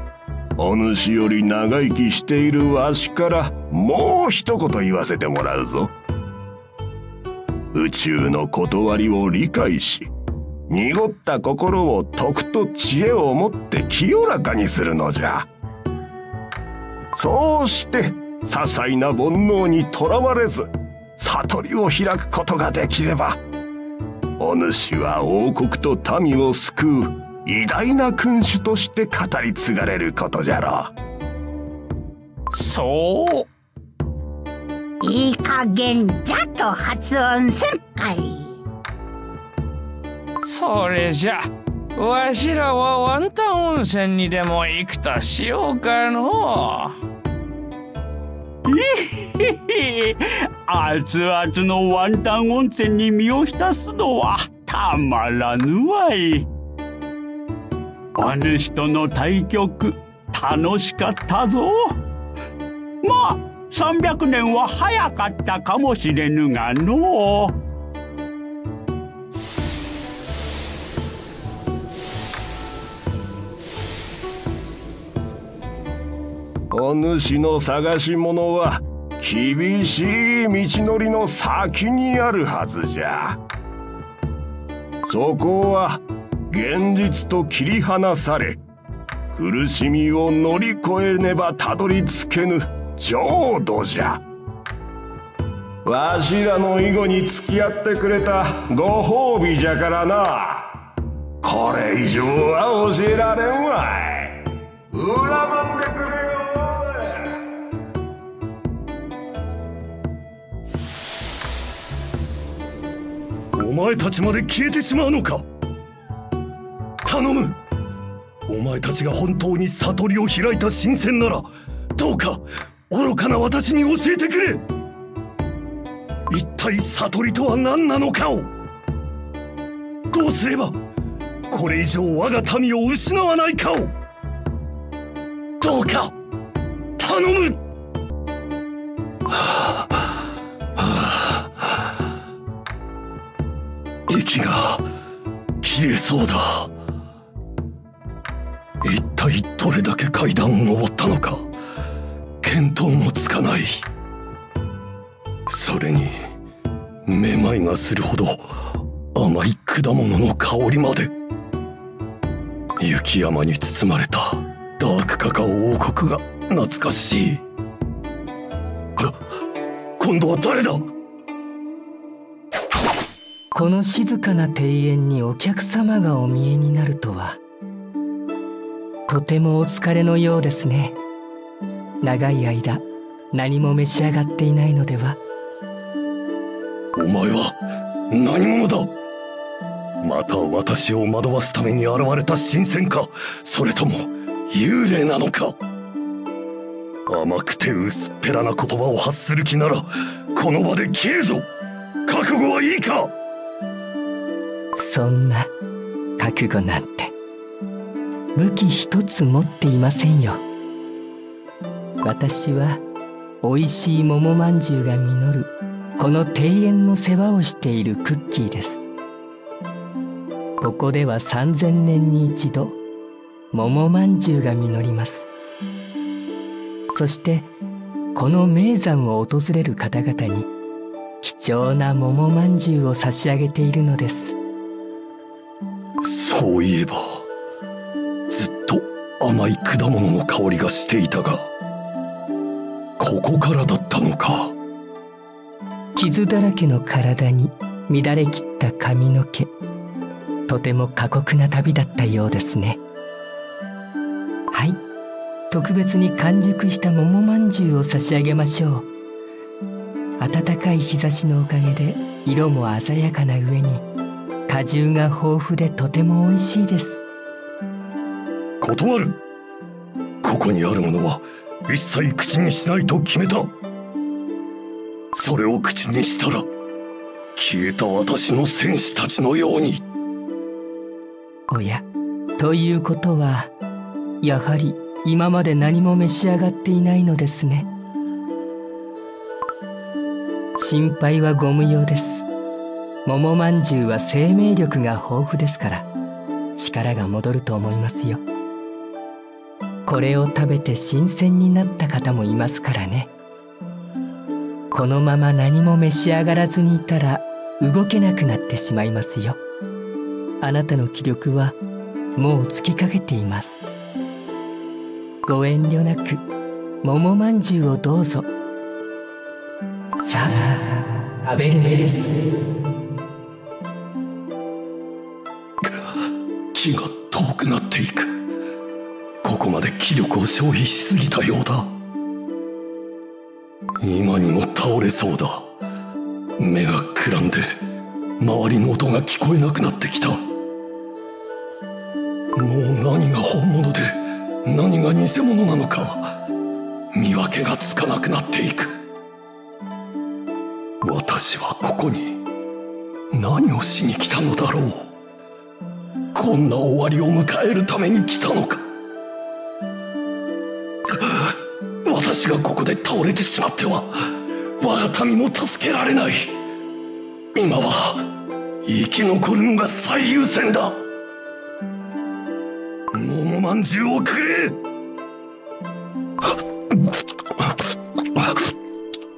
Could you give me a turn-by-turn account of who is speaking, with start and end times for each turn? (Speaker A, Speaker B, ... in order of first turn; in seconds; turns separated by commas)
Speaker A: 0.6-5.9, Speaker A: 7.7-10.1, Speaker A: 10.7-15.5, Speaker A: 17.1-23.4, Speaker A: 24.4-30.9, Speaker B: 32.5-33.5, Speaker C: 35.0-38.6, Speaker B: 40.4-46.9, Speaker D: 48.7-56.5, Speaker D: 58.2-62.0, Speaker D: 63.0-67.6, Speaker A: 76.7-83.4, Speaker A: 85.0-88.6, Speaker A: 89.3-94.2, Speaker A: 95.8-100.7, Speaker A: 101.4-107.3, Speaker E: 113.5-115.4, Speaker E: 117.0-117.6, Speaker E: 118.5-124.6, Speaker E: 126.3-128.5, Speaker E: 130.1-130.8, Speaker E: 131.5-133.9, Speaker E: 135.6-136.1, Speaker E: 137.0-137.6, Speaker E: 139.3-140.0, Speaker E: 140.8-141.7, Speaker E: 144.1-144.8, Speaker E: 145.6-146.7, Speaker E: 148.8-151.4, Speaker E: 152.4-153.8, Speaker E: 155.5-156.2, Speaker E: 157.1-158.5, Speaker E: 159.1-161.1, Speaker E: 162.8-167.4, Speaker E: 170.0-170.9, Speaker F: 173.5-177.4, Speaker F: 179.1-181.0, Speaker F: 182.0-185.2, Speaker E: 186.9-187.6, Speaker E: 188.1-188.9, Speaker E: 190.0-195.6, Speaker E: 197.1-201.4, Speaker E: 202.1-203.1, Speaker F: 204.7-205.5, Speaker F: 206.2-207.1, Speaker F: 208.3-210.4, Speaker F: 212.0-212.8, Speaker F: 213.4-218.8, Speaker F: 220.6-222.8, Speaker F: 223.5-225.3, Speaker F: 226.9-227.5, Speaker F: 228.1-230.5, Speaker F: 231.2-234.4, Speaker E: 236.0-237.2, Speaker E: 238.3-241.5, Speaker E: 243.0-244.5, Speaker F: 245.9-249.5, Speaker F: 250.5-252.8, Speaker F: 254.5-254.8, Speaker F: 255.5-258.9, Speaker F: 260.2-263.8, Speaker F: 264.5-267.0, Speaker E: 268.6-269.2, Speaker E: 270.2-273.5, Speaker E: 275.1-276.4, Speaker E: 277.4-279.8, Speaker F: 281.5-281.8, Speaker F: 282.4-283.5, Speaker F: 284.2-287.7, Speaker F: 290.6-292.2, Speaker F: 293.0-295.9, Speaker F: 296.6-298.2, Speaker F: 299.9-303.1, Speaker F: 304.7-309.4, Speaker F: 310.4-311.6, Speaker F: 312.1-313.6, Speaker F: 315.2-316.2, Speaker F: 316.8-318.3, Speaker F: 320.0-322.4, Speaker E: 325.6-325.9, Speaker E: 326.5-328.1, Speaker E: 329.2-331.7, Speaker E: 333.8-335.5, Speaker E: 336.4-337.5, Speaker E: 338.2-340.2, Speaker E: 342.4-346.1, Speaker E: 346.9-348.7, Speaker E: 350.8-352.2, Speaker E: 353.1-354.9, Speaker E: 356.1-358.6, Speaker E: 360.9-361.3, Speaker E: 361.8-363.9, Speaker E: 364.6-366.3, Speaker E: 367.3-368.1, Speaker E: 368.6-370.8, Speaker E: 372.9-374.6